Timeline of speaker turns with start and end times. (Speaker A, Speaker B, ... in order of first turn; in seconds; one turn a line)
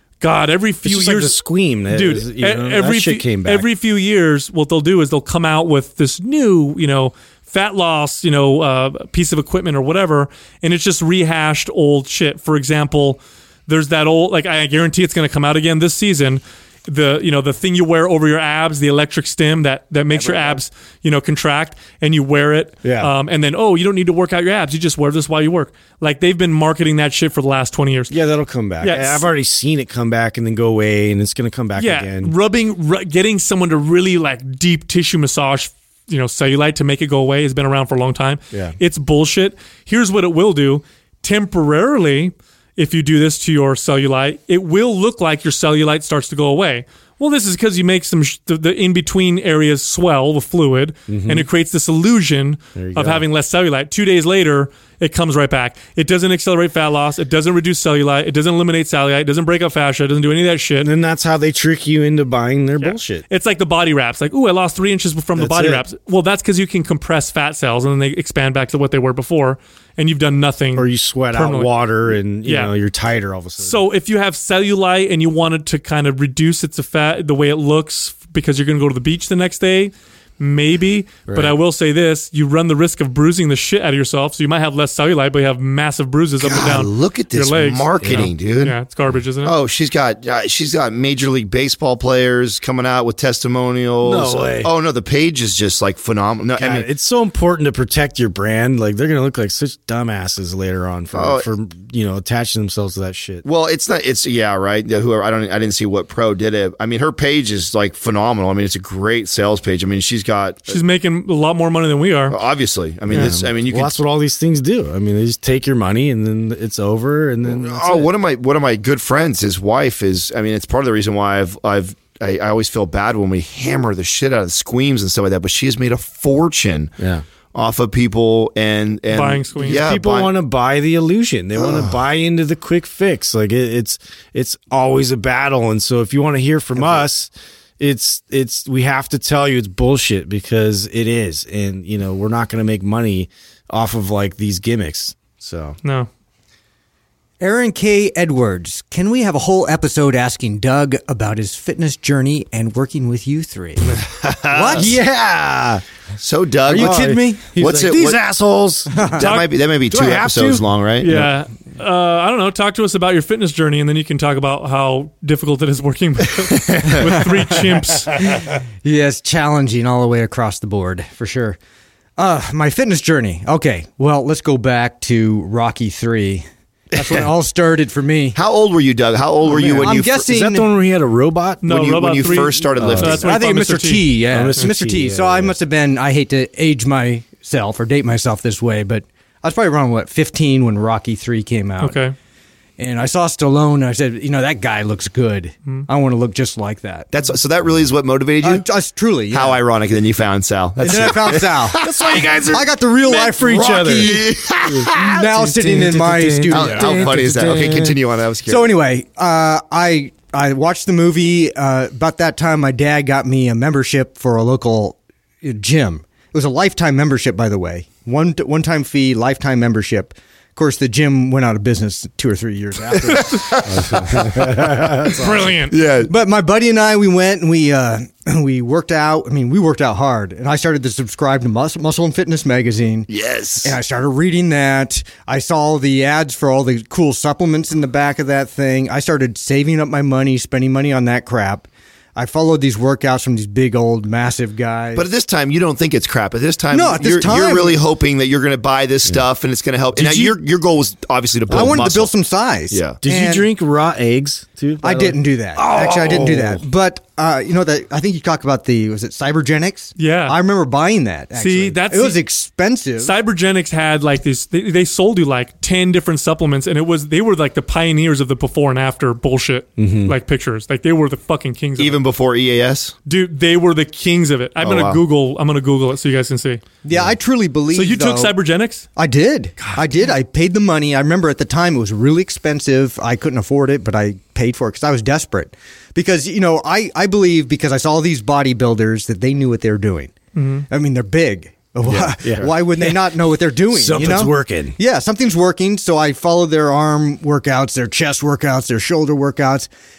Speaker A: 0.2-1.4
Speaker B: 0.8-3.7
Speaker A: 1.9-28.1
Speaker B: 22.8-23.1
Speaker B: 28.1-32.3
Speaker A: 28.8-29.2
Speaker A: 31.8-60.9
Speaker B: 38.5-38.8
Speaker B: 51.1-51.5
Speaker B: 52.8-53.2
Speaker B: 60.8-63.2
Speaker A: 62.8-71.7
Speaker B: 65.4-65.8
Speaker B: 70.8-73.8
Speaker A: 72.4-72.7
Speaker A: 73.6-89.5
Speaker B: 81.3-81.6
Speaker C: 86.4-88.8
Speaker B: 88.0-88.3
Speaker C: 89.4-96.9
Speaker B: 94.0-94.7
Speaker B: 96.5-103.5
Speaker C: 101.1-101.5
Speaker C: 103.4-110.8
Speaker A: 110.7-112.4
Speaker C: 112.3-114.0
Speaker B: 113.1-118.1
Speaker C: 117.5-126.9
Speaker B: 127.0-127.2
Speaker C: 127.5-130.3
Speaker A: 129.1-129.8
Speaker B: 129.6-145.8
Speaker C: 131.6-131.9
Speaker A: 145.8-146.1
Speaker D: 147.4-155.0
Speaker C: 154.0-154.9
Speaker B: 154.7-155.8
Speaker C: 156.2-158.2
Speaker D: 156.7-157.6
Speaker B: 156.7-159.1
Speaker D: 158.9-159.2
Speaker C: 159.2-161.1
Speaker A: 159.2-159.5
Speaker B: 159.9-161.3
Speaker A: 161.0-168.1
Speaker D: 168.2-171.6
Speaker D: 172.2-178.4
Speaker C: 178.3-180.3
Speaker D: 179.4-180.7
Speaker B: 179.5-183.2
Speaker A: 181.6-184.7
Speaker C: 181.7-183.3
Speaker D: 183.2-192.0
Speaker B: 184.3-185.6
Speaker A: 191.8-192.2
Speaker D: 192.8-197.1
Speaker C: 197.1-198.7
Speaker D: 198.4-199.6
Speaker C: 199.3-202.3
Speaker D: 200.8-201.9
Speaker B: 200.9-208.0
Speaker D: 202.5-207.2
Speaker C: 203.3-205.1
Speaker C: 206.5-208.7
Speaker D: 208.5-224.4
Speaker C: 223.0-225.1
Speaker B: 223.7-225.2
Speaker D: 225.1-225.5
Speaker A: 225.2-225.8
Speaker C: 225.7-226.1
Speaker D: 226.1-233.1
Speaker C: 233.1-233.8
Speaker D: 233.6-245.1
Speaker C: 244.9-252.1
Speaker D: 246.7-247.8
Speaker D: 251.5-253.5
Speaker C: 252.7-253.0
Speaker B: 253.0-256.6
Speaker D: 254.8-263.1
Speaker C: 256.1-256.3
Speaker A: 260.0-260.4
Speaker A: 261.4-262.2
Speaker A: 263.0-272.0
Speaker B: 269.8-270.2
Speaker C: 271.8-273.0
Speaker A: 273.1-276.6
Speaker C: 274.6-275.0
Speaker D: 276.8-278.4
Speaker A: 277.7-278.9
Speaker D: 279.0-290.1
Speaker A: 290.3-290.7
Speaker D: 290.7-299.7
Speaker B: 291.9-293.1
Speaker B: 293.7-294.8